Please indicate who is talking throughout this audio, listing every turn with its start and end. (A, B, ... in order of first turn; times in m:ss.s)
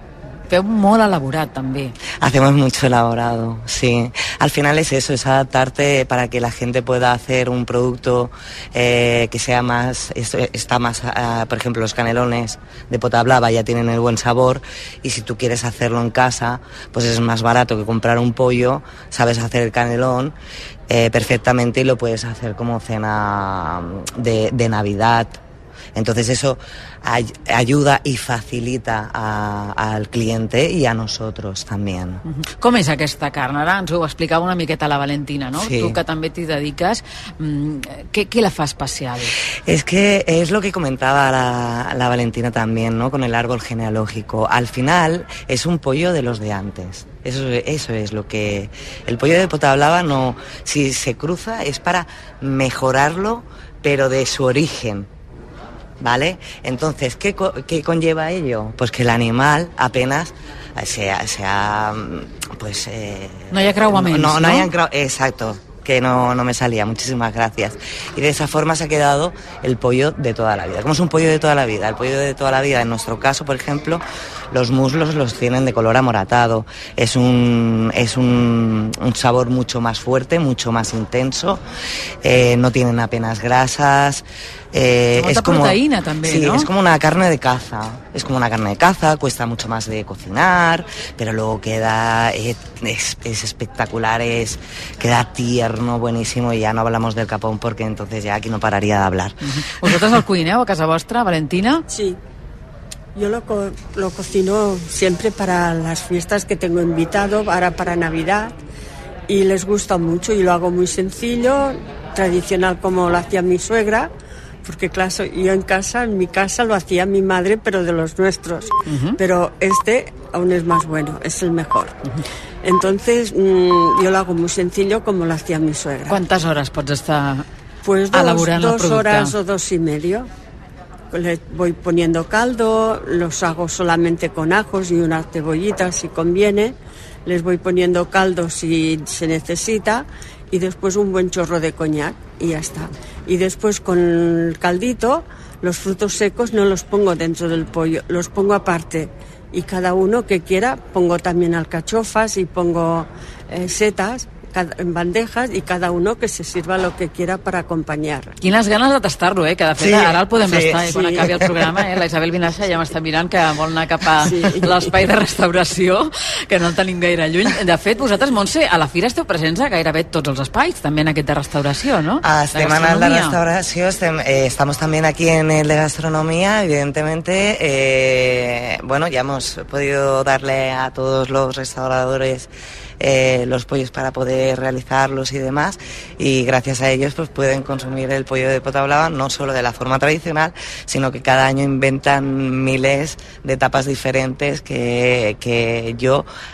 0:00.5-0:01.9 A
0:02.2-0:20.4 B
0:20.9-0:25.4 B
0:26.0-0:32.2 B
0:32.6-0:39.3 A
0:35.6-0:36.0 B
0:39.7-0:55.1 B
0:56.0-1:21.6 B
1:03.5-1:04.7 A
1:22.2-1:39.4 B
1:25.2-1:26.7 A
1:39.6-1:41.8 A
1:41.9-1:42.2 C
1:43.2-1:48.5 C
1:49.3-1:54.1 C
1:54.6-2:02.0 C
1:58.9-1:59.2 A
2:02.6-2:06.2 C
2:06.1-2:07.4 A
2:07.8-2:10.3 C
2:08.1-2:09.4 A
2:11.1-2:38.4 C
2:38.4-2:53.4 A
2:39.8-2:41.5 B
2:40.9-2:41.3 C
2:44.2-2:44.7 C
2:52.2-3:16.3 B